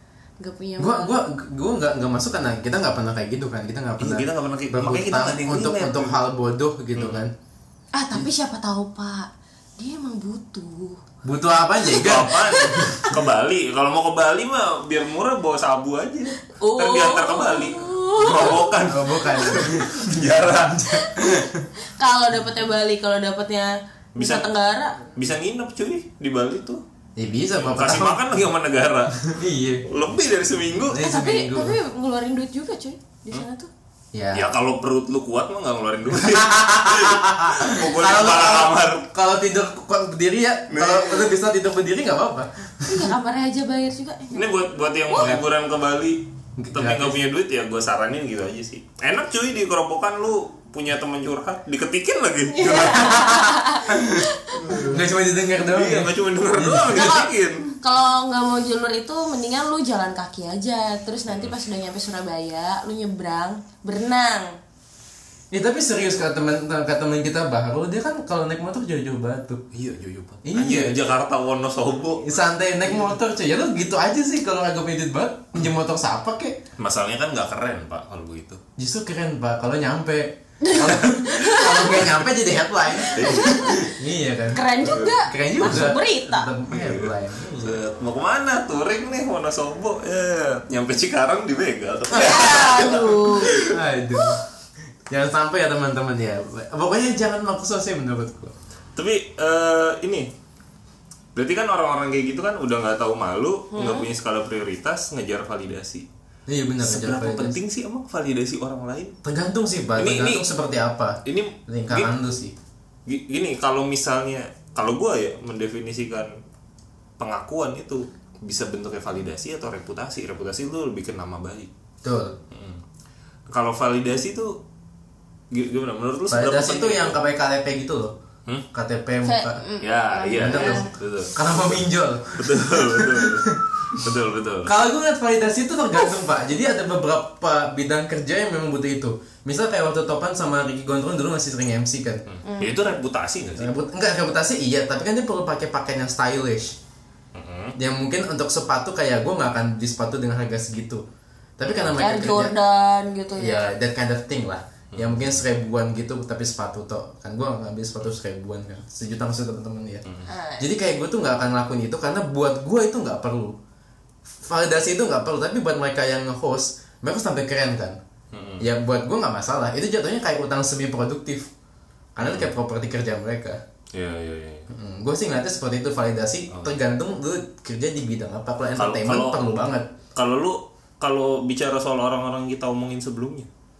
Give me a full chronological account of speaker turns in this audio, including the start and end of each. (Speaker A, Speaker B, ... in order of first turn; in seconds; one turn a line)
Speaker A: 0.4-1.1
Speaker B: 0.8-7.3
Speaker C: 4.0-6.2
Speaker C: 7.0-7.2
Speaker A: 7.9-11.0
Speaker B: 11.2-13.1
Speaker C: 11.9-21.1
Speaker A: 12.2-13.0
Speaker A: 16.5-19.7
Speaker B: 18.8-21.7
Speaker A: 20.9-25.0
Speaker C: 24.2-24.4
Speaker C: 25.1-26.8
Speaker B: 27.2-28.2
Speaker C: 27.5-29.3
Speaker B: 29.2-29.9
Speaker C: 29.9-31.0
Speaker B: 30.9-31.8
Speaker A: 31.0-33.7
Speaker B: 34.1-34.5
Speaker C: 34.3-39.0
Speaker B: 36.1-43.1
Speaker C: 40.7-41.3
Speaker A: 42.9-45.4
Speaker C: 44.3-46.2
Speaker B: 46.6-47.2
Speaker C: 46.7-53.3
Speaker A: 52.5-54.8
Speaker B: 53.0-57.3
Speaker C: 54.5-55.0
Speaker C: 55.6-57.7
Speaker A: 57.8-64.5
Speaker C: 61.3-61.5
Speaker B: 65.5-69.6
Speaker C: 69.7-72.3
Speaker B: 70.4-71.0
Speaker B: 72.2-76.6
Speaker C: 76.8-78.6
Speaker B: 78.8-87.8
Speaker A: 80.6-82.1
Speaker A: 82.9-83.9
Speaker C: 83.1-83.7
Speaker A: 84.5-86.5
Speaker C: 84.8-85.1
Speaker C: 86.7-93.8
Speaker B: 92.1-92.5
Speaker A: 92.1-93.6
Speaker B: 93.6-94.4
Speaker B: 95.1-98.5
Speaker C: 99.0-100.3
Speaker C: 101.3-106.0
Speaker A: 103.7-104.1
Speaker B: 106.5-107.6
Speaker C: 106.8-109.2
Speaker B: 109.2-112.5
Speaker C: 110.0-110.5
Speaker C: 111.2-112.1
Speaker C: 113.0-116.3
Speaker C: 117.2-121.7
Speaker B: 122.0-122.4
Speaker C: 122.5-122.8
Speaker C: 123.5-124.6
Speaker C: 125.5-127.2
Speaker B: 126.3-128.1
Speaker B: 128.7-129.6
Speaker A: 129.2-130.9
Speaker C: 129.8-131.8
Speaker B: 130.4-134.1
Speaker C: 132.4-134.7
Speaker B: 134.7-142.2
Speaker C: 142.3-143.7
Speaker A: 142.4-142.7
Speaker B: 143.6-146.8
Speaker C: 147.3-147.8
Speaker B: 147.8-151.0
Speaker B: 151.6-152.5
Speaker C: 151.6-152.0
Speaker A: 151.9-153.6
Speaker B: 153.3-160.1
Speaker C: 154.9-155.3
Speaker A: 160.2-160.7
Speaker B: 160.6-163.6
Speaker B: 164.4-168.0
Speaker C: 168.3-168.7
Speaker B: 168.6-171.5
Speaker B: 172.2-173.6
Speaker C: 172.2-172.5
Speaker C: 173.9-174.7
Speaker B: 174.7-179.9
Speaker C: 178.8-179.4
Speaker C: 180.2-183.5